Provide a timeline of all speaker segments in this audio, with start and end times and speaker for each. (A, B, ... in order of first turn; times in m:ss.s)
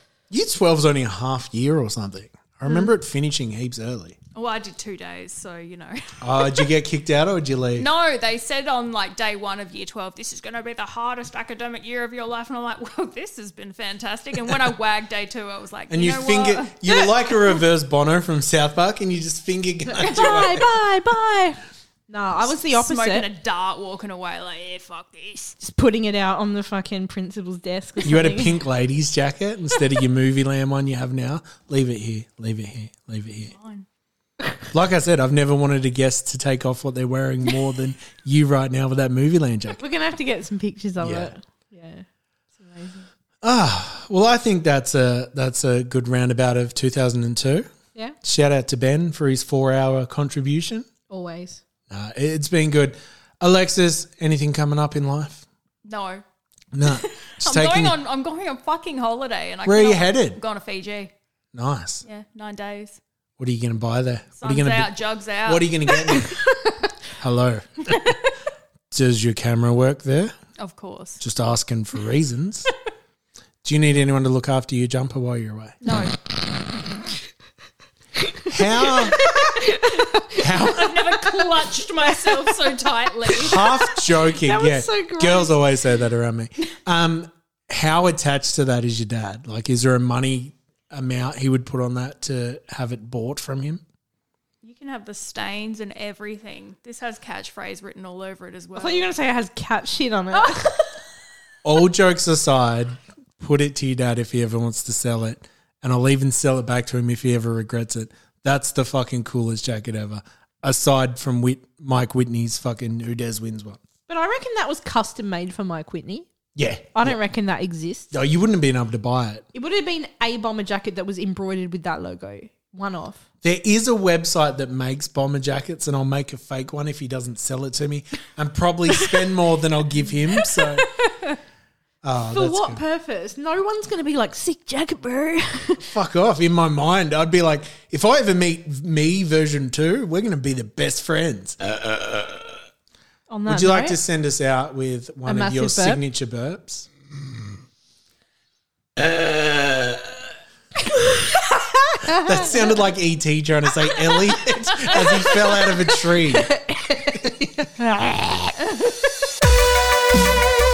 0:00.3-0:04.2 A
0:04.4-0:06.6 B
0:06.2-0:07.9 A
0:07.8-0:16.7 B
0:15.9-0:20.7 A
0:16.9-0:17.5 C
0:20.0-0:23.3 C
0:22.4-0:25.6 B
0:25.6-0:28.6 C
0:28.0-0:33.5 A
0:33.5-0:33.9 B
0:34.7-0:39.8 A
0:39.8-0:42.1 C
0:41.0-0:41.4 A
0:42.6-0:43.1 C
0:43.4-0:47.7 A
0:48.2-0:50.9 A
0:51.1-0:51.6 C
0:51.9-0:55.5 A
0:55.9-0:56.2 B
0:56.7-0:58.0 A
0:57.2-1:01.1 B
0:59.6-1:00.4 A
1:01.5-1:02.1 A
1:02.1-1:03.0 B
1:03.4-1:06.4 A
1:04.4-1:05.9 B
1:07.2-1:08.1 A
1:08.9-1:10.4 A
1:10.6-1:11.2 B
1:11.2-1:12.7 A
1:13.6-1:15.8 A
1:15.8-1:16.1 B
1:18.5-1:19.2 A
1:18.8-1:20.4 C
1:20.4-1:21.0 A
1:20.4-1:23.6 B
1:22.2-1:22.5 C
1:23.3-1:33.8 A
1:23.5-1:25.6 C
1:34.6-1:39.1 B
1:38.8-1:40.8 C
1:41.6-1:53.8 A
1:54.1-1:56.3 C
1:56.6-1:57.2 A
1:56.9-1:58.1 C
1:58.1-1:59.5 A
1:59.5-2:03.2 C
2:03.4-2:10.9 A
2:10.4-2:11.4 C
2:12.0-2:12.8 A
2:12.3-2:15.8 C
2:15.8-2:22.2 A
2:23.3-2:24.0 C
2:23.5-2:26.9 A
2:25.2-2:26.0 C
2:30.9-2:32.5 C
2:32.1-2:36.6 A
2:34.9-2:35.4 C
2:36.5-2:38.5 C